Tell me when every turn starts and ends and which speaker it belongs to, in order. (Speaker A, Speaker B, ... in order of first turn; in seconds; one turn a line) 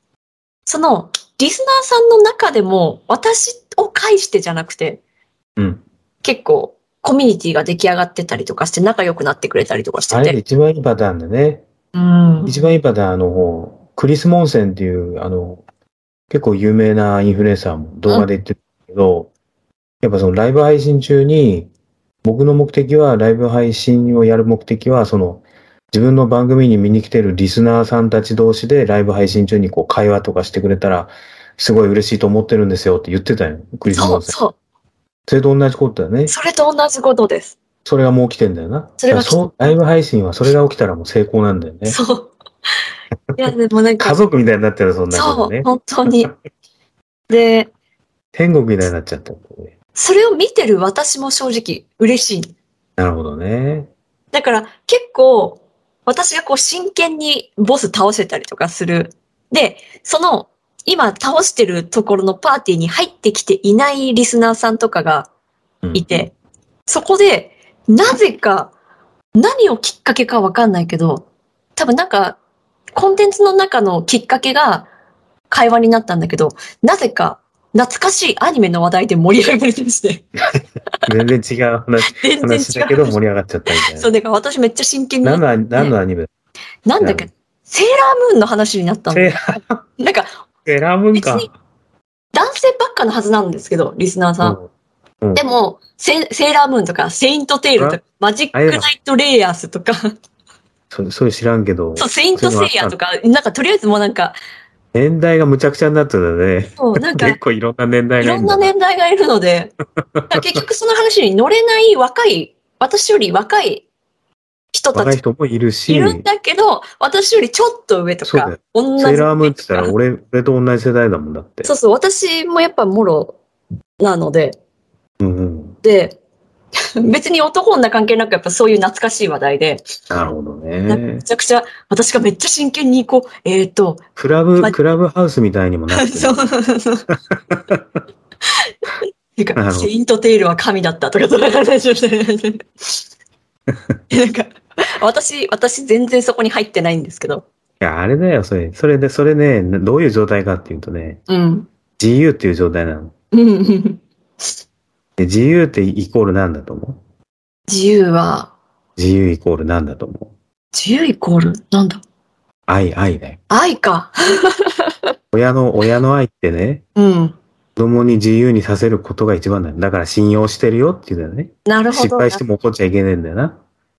Speaker A: 0.7-5.0
Speaker B: 5.6-5.8
Speaker A: 6.2-10.4
Speaker B: 10.1-11.6
Speaker A: 11.9-12.7
Speaker B: 12.4-15.6
Speaker B: 16.3-19.3
Speaker B: 20.0-21.7
Speaker B: 22.2-34.3
Speaker A: 33.9-34.5
Speaker B: 35.3-36.3
Speaker A: 36.3-37.6
Speaker B: 37.8-42.0
Speaker A: 39.0-39.8
Speaker A: 41.9-42.3
Speaker A: 43.4-44.2
Speaker B: 44.0-45.7
Speaker A: 45.1-46.3
Speaker A: 47.3-47.7
Speaker B: 48.3-49.7
Speaker A: 49.9-52.5
Speaker B: 53.0-53.9
Speaker A: 54.3-65.3
Speaker B: 65.8-66.2
Speaker A: 65.9-66.3
Speaker A: 66.9-68.7
Speaker A: 69.3-72.4
Speaker A: 72.9-74.9
Speaker A: 75.5-80.2
Speaker B: 81.0-84.1
Speaker A: 82.0-83.2
Speaker A: 83.8-85.9
Speaker B: 85.2-86.3
Speaker A: 86.8-89.4
Speaker B: 87.0-87.3
Speaker B: 89.1-89.8
Speaker A: 90.0-90.3
Speaker B: 90.6-91.5
Speaker A: 91.1-91.5
Speaker A: 92.3-94.6
Speaker B: 94.4-94.7
Speaker A: 95.3-100.0
Speaker B: 98.5-98.9
Speaker B: 100.9-103.0
Speaker A: 102.0-104.4
Speaker B: 104.9-108.7
Speaker A: 106.8-107.4
Speaker A: 108.2-109.7
Speaker B: 110.2-110.6
Speaker A: 110.3-113.8
Speaker A: 114.7-115.2
Speaker B: 114.9-116.2
Speaker A: 115.9-119.9
Speaker B: 118.2-121.7
Speaker A: 121.6-123.4
Speaker A: 124.0-124.6
Speaker B: 125.2-125.8
Speaker A: 125.8-126.2
Speaker A: 127.0-129.8
Speaker B: 130.1-131.2
Speaker A: 130.9-134.0
Speaker B: 134.2-136.4
Speaker A: 135.9-137.0
Speaker B: 137.5-137.8
Speaker A: 139.4-142.6
Speaker B: 139.6-139.9
Speaker A: 144.1-147.4
Speaker B: 147.8-151.2
Speaker A: 151.3-151.7
Speaker B: 152.0-153.1
Speaker A: 153.3-154.0
Speaker B: 155.2-157.0
Speaker A: 157.7-158.5
Speaker B: 159.0-160.3
Speaker A: 160.7-162.0
Speaker B: 162.7-163.4
Speaker A: 163.5-164.9
Speaker B: 165.3-166.8
Speaker A: 166.9-167.3
Speaker B: 167.8-173.6
Speaker A: 171.7-172.4